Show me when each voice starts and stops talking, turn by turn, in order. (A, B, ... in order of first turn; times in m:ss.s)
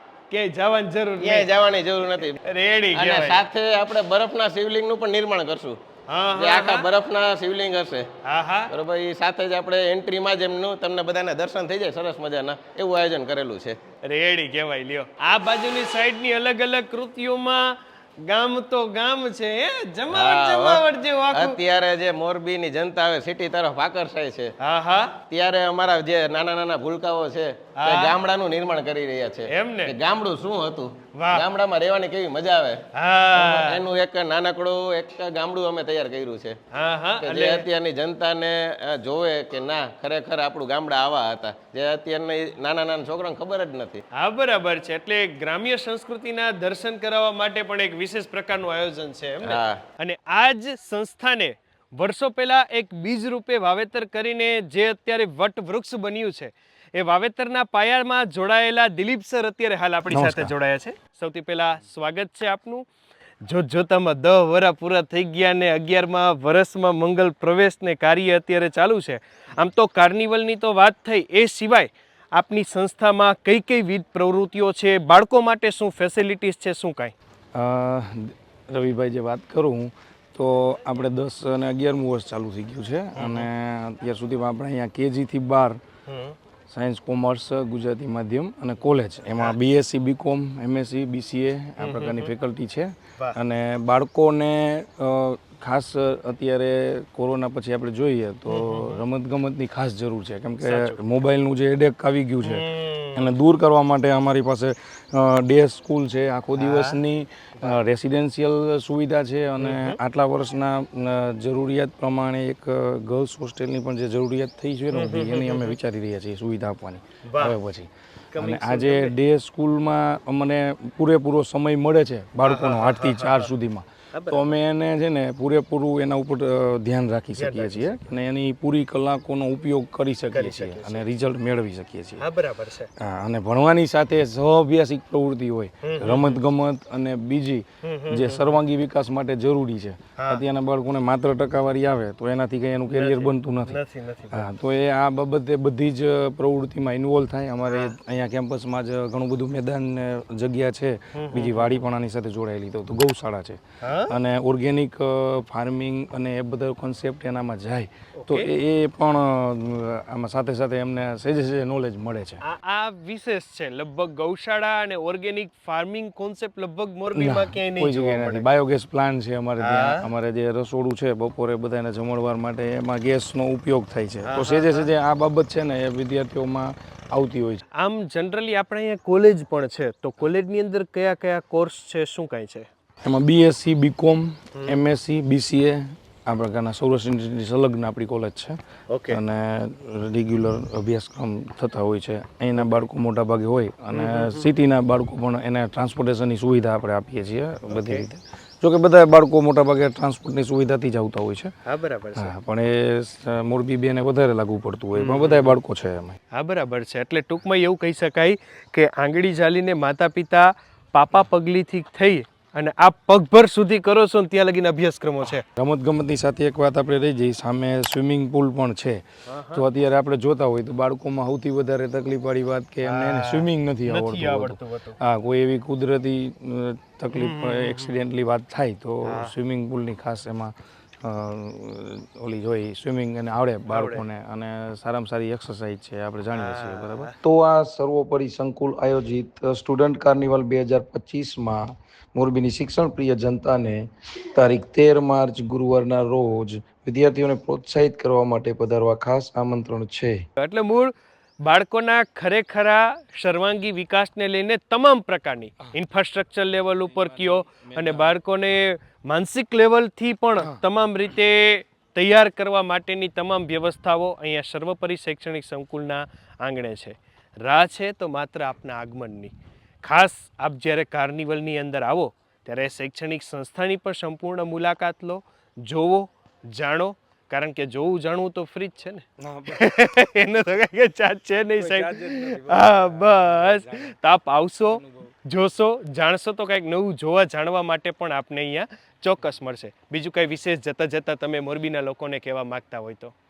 0:00.3-0:01.5 A
0:01.2-0:02.4 B
0:02.4-0:03.4 A
0:02.9-0:05.8 B
0:06.1-0:06.9 A
0:06.4-0:08.1 B
0:08.2-0:08.7 A
0:08.7-0:13.8 B
0:14.0-0:21.6 A
0:20.1-0:24.5 B
0:24.6-0:25.1 A
0:25.3-0:32.8 B
0:27.8-0:28.1 A
0:29.5-0:30.0 A
0:31.1-0:31.4 A
0:32.9-0:33.8 A
0:33.3-0:36.6 B
0:36.7-0:37.6 A
0:37.2-0:44.0 B
0:44.1-1:02.8 A
0:49.4-0:49.8 B
1:00.1-1:00.5 C
1:03.4-1:17.1 A
1:17.5-1:25.8 C
1:23.1-1:23.5 A
1:26.1-1:26.4 A
1:26.7-2:12.2 C
1:31.8-1:32.3 A
1:38.5-1:39.0 A
1:40.6-1:41.0 A
1:42.4-1:43.3 A
1:46.6-1:47.0 A
1:49.6-1:50.0 A
1:54.9-1:55.8 A
1:57.2-1:57.6 A
1:58.3-1:59.1 A
2:02.4-2:03.5 A
2:04.1-2:04.5 A
2:07.4-2:08.0 A
2:10.3-2:11.0 A
2:12.2-2:12.9 A
2:13.0-2:23.8 C
2:15.8-2:16.4 A
2:17.8-2:18.6 A
2:20.2-2:20.4 A
2:22.9-2:24.5 A
2:24.3-2:42.4 C
2:27.7-2:27.9 A
2:31.1-2:31.8 A
2:33.8-2:34.1 A
2:38.2-2:38.5 A
2:42.4-2:48.5 A
2:47.1-2:57.6 C
2:49.6-2:50.1 A
2:54.2-2:54.9 A
2:57.8-3:02.7 A
3:03.0-3:21.5 C
3:04.5-3:04.8 A
3:08.9-3:09.2 A
3:12.6-3:12.8 A
3:13.9-3:14.5 A
3:17.7-3:18.1 A
3:21.6-3:22.3 A
3:22.1-3:26.2 C
3:24.9-3:25.6 A
3:26.3-3:35.4 A
3:35.5-4:10.2 C
3:39.3-3:39.6 A
3:42.8-3:45.0 A
3:47.1-3:48.0 A
3:49.0-3:49.3 A
3:53.7-3:54.0 A
3:56.3-3:57.1 A
4:10.4-4:53.1 A
4:16.8-4:18.2 C
4:39.2-4:40.2 C
4:41.6-4:43.9 C
4:44.7-4:45.1 C